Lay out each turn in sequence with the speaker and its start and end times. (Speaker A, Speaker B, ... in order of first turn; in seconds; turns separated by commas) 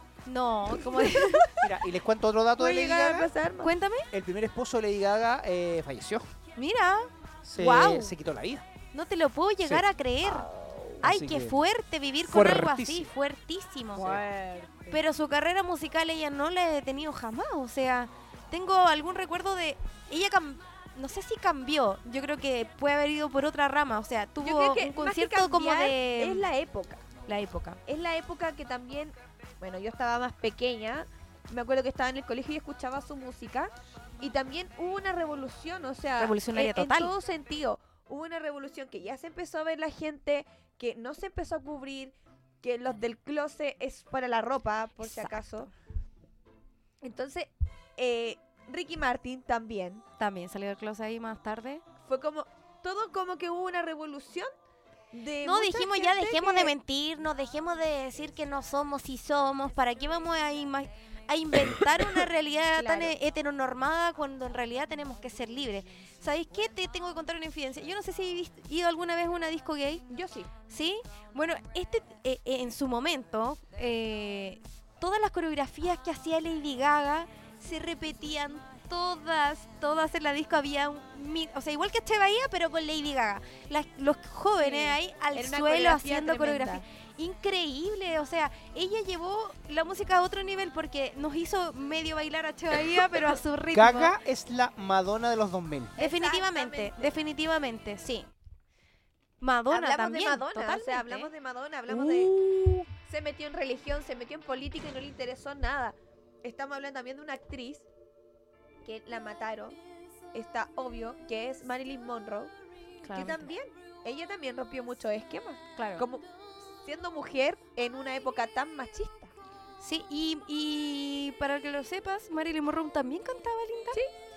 Speaker A: 0.2-1.6, Speaker B: 0.7-1.6, Speaker C: 1.6-3.3, Speaker B: 2.6-3.7, Speaker A: 3.6-4.1, Speaker C: 4.1-6.3, Speaker A: 6.5-8.1, Speaker C: 7.4-8.6, Speaker A: 8.9-10.5, Speaker B: 10.2-11.0, Speaker C: 11.0-11.6, Speaker A: 11.0-14.2, Speaker C: 12.2-13.1, Speaker C: 13.9-14.2, Speaker B: 14.0-14.9, Speaker A: 14.9-26.4, Speaker B: 24.4-27.0, Speaker A: 27.2-27.8, Speaker B: 27.9-45.7, Speaker A: 36.2-37.1, Speaker A: 45.0-45.7, Speaker B: 47.0-50.0, Speaker A: 50.2-51.8, Speaker B: 52.0-54.5, Speaker B: 55.1-56.7, Speaker A: 55.4-70.0, Speaker B: 62.8-63.1, Speaker B: 70.1-70.5, Speaker A: 70.7-94.1, Speaker B: 84.6-86.8, Speaker C: 93.7-95.9, Speaker B: 96.0-97.1, Speaker A: 96.0-98.3, Speaker A: 99.4-101.3, Speaker B: 99.7-102.4, Speaker A: 101.9-102.5, Speaker B: 102.9-107.8, Speaker B: 108.8-109.8, Speaker B: 110.3-112.5, Speaker A: 113.0-113.5, Speaker B: 113.1-116.2, Speaker A: 115.8-116.0, Speaker B: 116.8-119.3, Speaker A: 119.8-124.0